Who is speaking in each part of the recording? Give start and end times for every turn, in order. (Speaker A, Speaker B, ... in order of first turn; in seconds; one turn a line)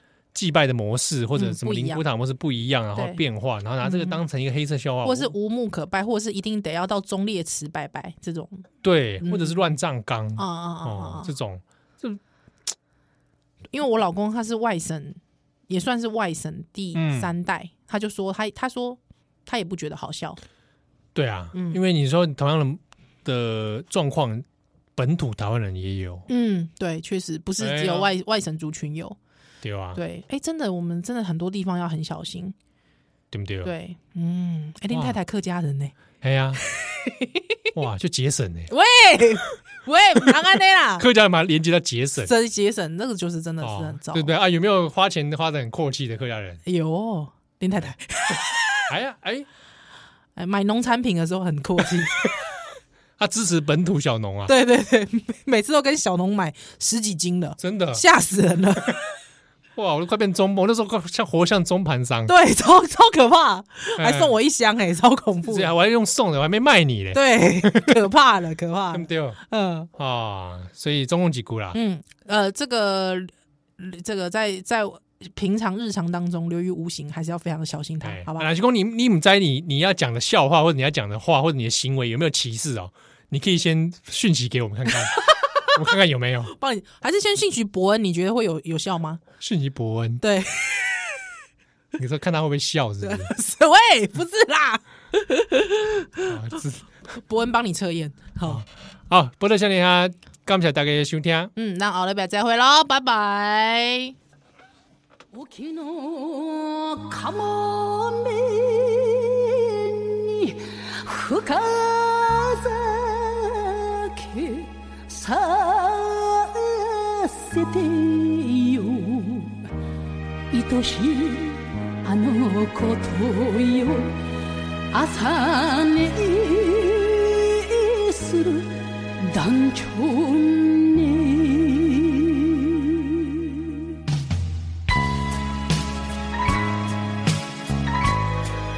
Speaker A: 0.3-5.3
Speaker B: 1.3-2.0
Speaker B: 2.9-3.2
Speaker B: 3.8-4.2
Speaker B: 5.0-8.7
Speaker A: 8.8-12.2
Speaker B: 9.2-9.7
Speaker B: 10.4-11.3
Speaker B: 13.7-20.4
Speaker A: 16.9-17.3
Speaker A: 21.1-24.4
Speaker B: 21.5-21.8
Speaker A: 24.9-26.3
Speaker B: 26.3-29.2
Speaker A: 27.6-28.1
Speaker A: 29.6-30.0
Speaker B: 29.9-32.5
Speaker A: 33.3-33.7
Speaker B: 33.6-36.0
Speaker A: 34.9-35.2
Speaker A: 36.2-36.6
Speaker B: 36.6-37.6
Speaker A: 37.7-38.7
Speaker B: 38.7-41.0
Speaker A: 41.0-42.3
Speaker B: 42.2-44.3
Speaker A: 43.6-46.6
Speaker B: 46.6-48.9
Speaker A: 48.9-49.5
Speaker B: 50.4-52.3
Speaker A: 53.2-54.5
Speaker B: 54.5-59.0
Speaker A: 57.6-58.0
Speaker A: 59.8-62.3
Speaker B: 62.3-65.7
Speaker A: 64.0-64.3
Speaker A: 65.5-68.0
Speaker B: 67.1-69.9
Speaker A: 68.9-69.4
Speaker A: 70.0-71.8
Speaker B: 71.7-78.5
Speaker A: 78.0-86.5
Speaker B: 84.9-85.8
Speaker B: 86.5-89.2
Speaker A: 89.4-90.2
Speaker B: 90.2-91.2
Speaker A: 92.0-93.3
Speaker B: 93.0-98.6
Speaker A: 96.2-96.8
Speaker A: 98.4-101.5
Speaker B: 101.5-104.2
Speaker C: 105.3-119.6
Speaker C: 120.5-124.2
Speaker C: 124.9-133.7